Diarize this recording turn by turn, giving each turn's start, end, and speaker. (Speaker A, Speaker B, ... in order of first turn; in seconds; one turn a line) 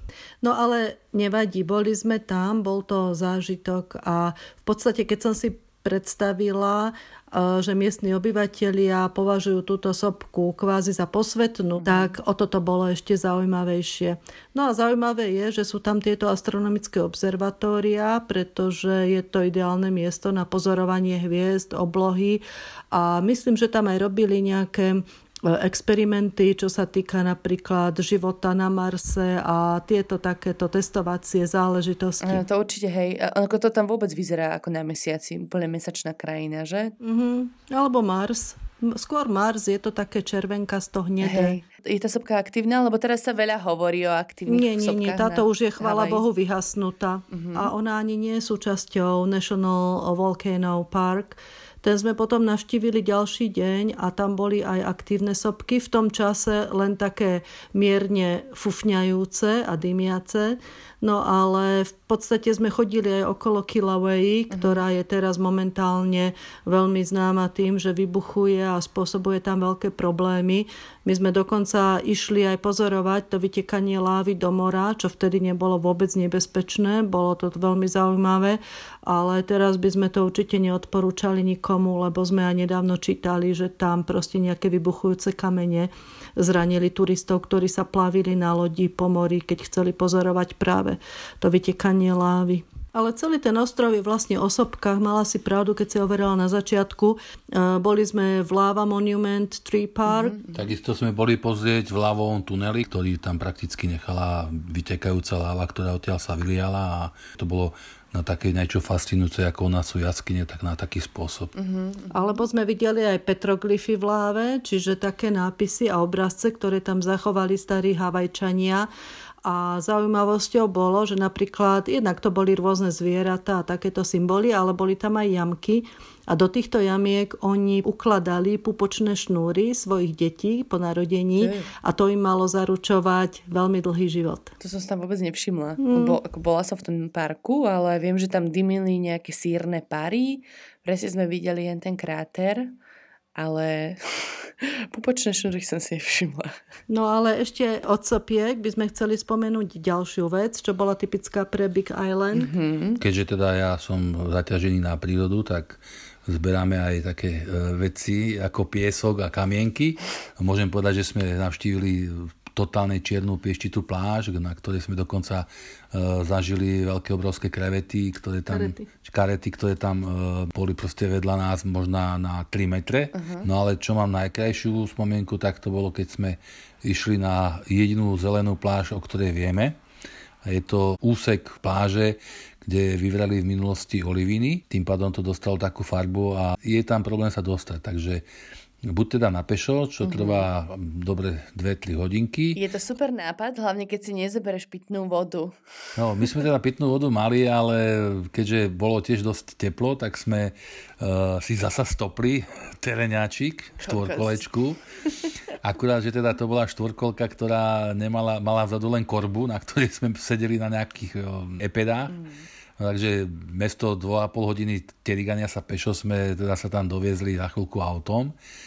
Speaker A: 0.4-32.4
Speaker B: 11.8-12.1
Speaker B: 32.2-36.9
Speaker A: 37.0-41.6
Speaker B: 41.2-46.2
Speaker A: 44.5-100.3
Speaker B: 47.3-47.7
Speaker B: 64.5-64.8
Speaker B: 100.1-100.7
Speaker C: 100.5-111.5
Speaker B: 111.5-112.4
Speaker A: 112.1-118.9
Speaker A: 119.4-134.5
Speaker B: 131.4-131.7
Speaker B: 134.6-142.7
Speaker A: 135.8-136.2
Speaker B: 143.3-146.6
Speaker A: 146.9-152.5
Speaker B: 152.3-153.0
Speaker C: 153.0-179.8
Speaker A: 168.5-168.9
Speaker B: 173.1-173.5
Speaker C: 180.4-188.2
Speaker C: 188.8-192.6
Speaker B: 190.0-190.4
Speaker B: 192.5-195.5
Speaker C: 195.9-204.8
Speaker B: 203.8-204.5
Speaker C: 205.6-212.2
Speaker B: 212.1-212.4
Speaker C: 212.8-218.3